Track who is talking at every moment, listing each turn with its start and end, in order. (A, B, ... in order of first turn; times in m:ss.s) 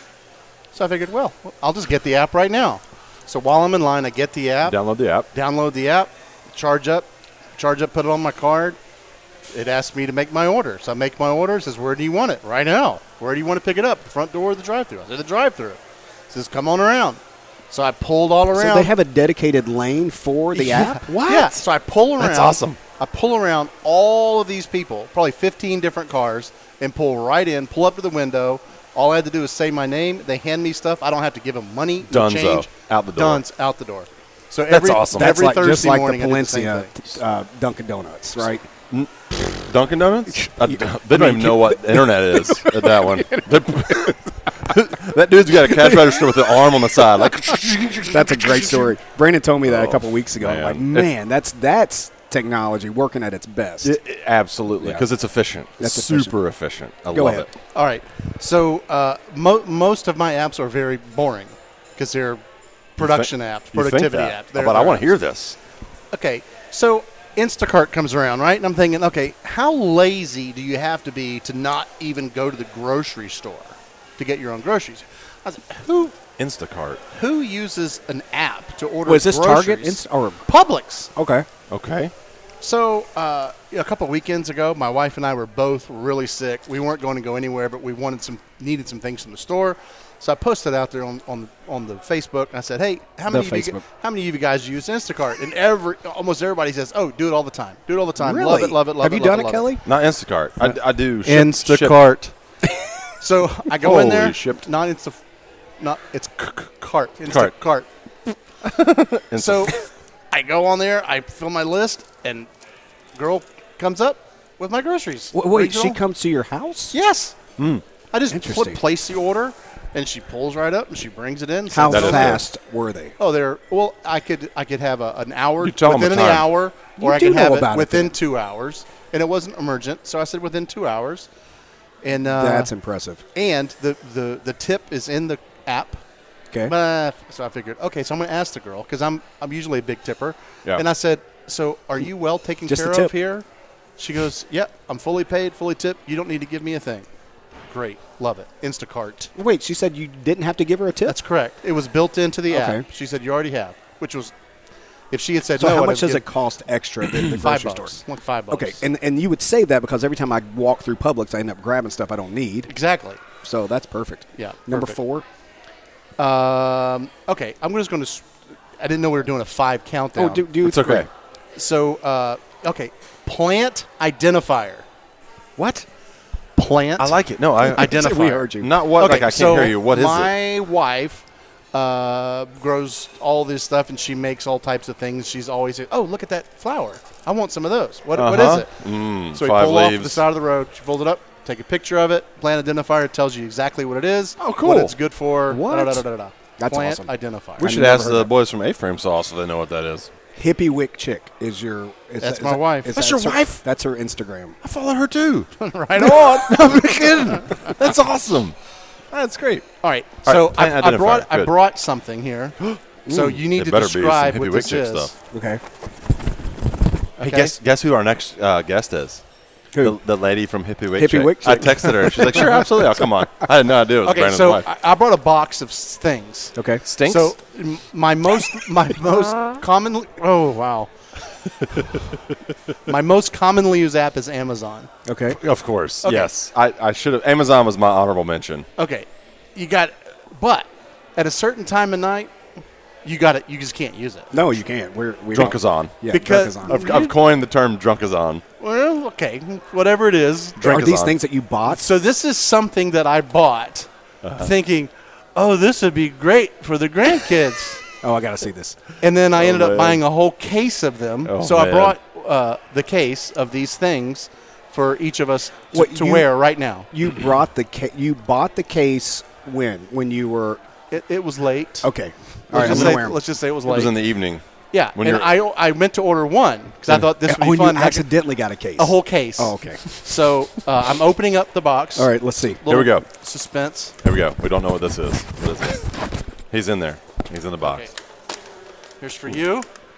0:00.7-0:04.8 A
0:04.6-0:05.3 B
0:05.3-0:08.8 A
0:09.5-0:18.9 A
0:18.5-0:21.0 C
0:20.5-0:21.6 B
0:21.2-0:37.1 A
0:22.2-0:22.8 B
0:32.0-0:33.4 B
0:34.7-0:35.4 B
0:35.1-0:38.6 C
0:38.9-0:48.9 B
0:40.3-0:44.1 C
0:48.0-0:54.0 C
0:49.6-0:51.1 B
0:53.8-0:57.5 B
0:55.8-0:56.4 C
0:57.1-0:57.5 C
0:57.7-1:02.4 A
1:03.0-1:05.1 A
1:03.0-1:05.6 B
1:06.1-1:16.2 A
1:16.4-1:17.0 B
1:17.1-1:21.1 A
1:19.0-1:20.4 C
1:21.1-1:21.4 C
1:21.7-1:22.1 B
1:22.6-1:39.7 A
1:33.3-1:33.8 C
1:38.2-1:39.8 C
1:39.8-1:42.0 B
1:41.2-1:42.3 A
1:43.2-1:45.2 A
1:43.8-1:44.6 B
1:45.8-1:47.9 A
1:47.3-1:47.5 B
1:48.6-1:49.7 B
1:49.3-1:52.5 A
1:53.1-1:56.0 A
1:55.3-1:57.0 C
1:56.9-1:57.4 A
1:57.6-1:57.8 B
1:58.1-2:02.4 A
1:58.3-1:58.8 C
2:01.7-2:03.1 C
2:01.9-2:02.4 B
2:03.2-2:11.3 A
2:05.6-2:06.5 B
2:07.0-2:08.2 C
2:12.0-2:12.7 A
2:12.2-2:13.2 C
2:13.3-2:16.0 A
2:16.7-2:23.4 A
2:22.7-2:23.1 C
2:24.0-2:27.1 A
2:27.7-2:29.3 A
2:29.3-2:31.1 C
2:31.1-2:34.3 A
2:32.5-2:32.8 C
2:35.1-2:36.2 A
2:35.6-2:38.0 C
2:37.1-2:38.8 A
2:38.5-2:42.7 C
2:42.7-2:43.2 A
2:43.4-2:45.2 C
2:44.4-2:45.0 A
2:46.2-2:50.5 A
2:50.2-2:51.1 C
2:50.6-2:51.1 B
2:51.6-2:54.8 A
2:55.6-2:55.8 B
2:56.6-2:57.2 A
2:57.0-3:00.3 B
2:57.6-2:58.7 C
2:57.7-3:08.7 A
3:08.1-3:10.2 B
3:09.3-3:17.7 A
3:14.4-3:14.9 B
3:15.5-3:16.0 C
3:16.6-3:18.3 C
3:17.6-3:20.1 B
3:20.4-3:24.6 C
3:22.2-3:22.9 A
3:22.9-3:23.6 B
3:24.6-3:28.5 B
3:25.6-3:27.7 A
3:29.1-3:29.7 B
3:29.8-3:35.1 A
3:30.2-3:31.5 B
3:32.6-3:35.1 B
3:33.1-3:33.4 C
3:35.3-3:35.6 C
3:37.2-3:37.5 A
3:37.2-3:39.2 B
3:39.8-3:44.7 B
3:41.0-3:42.8 C
3:44.0-3:50.9 A
3:46.6-3:46.8 C
3:46.8-3:47.3 B
3:51.7-3:52.1 B
3:52.8-3:54.9 A
3:55.0-3:55.4 C
3:55.3-3:58.6 B
3:56.0-3:56.3 A
3:58.8-4:02.3 A
4:03.0-4:04.3 A
4:04.3-4:06.8 C
4:05.3-4:06.0 B
4:06.1-4:07.2 A
4:06.6-4:08.4 B
4:08.6-4:10.6 A
4:10.6-4:11.2 B
4:10.6-4:11.9 C
4:11.6-4:17.8 A
4:14.2-4:14.5 B
4:18.0-4:18.8 C
4:19.0-4:26.9 A
4:19.3-4:20.0 B
4:21.2-4:21.9 B
4:25.7-4:26.3 C
4:26.9-4:30.6 C
4:30.9-4:31.9 A
4:31.8-4:33.2 C
4:32.5-4:34.0 A
4:32.5-4:33.0 B
4:33.6-4:34.4 B
4:34.7-4:38.1 A
4:34.9-4:35.3 B
4:36.9-4:39.8 C
4:38.8-4:42.1 A
4:42.0-4:42.6 C
4:42.6-4:43.9 A
4:42.6-4:43.1 B
4:44.0-4:45.9 B
4:46.5-4:47.9 B
4:47.6-4:47.9 A
4:49.0-4:49.7 A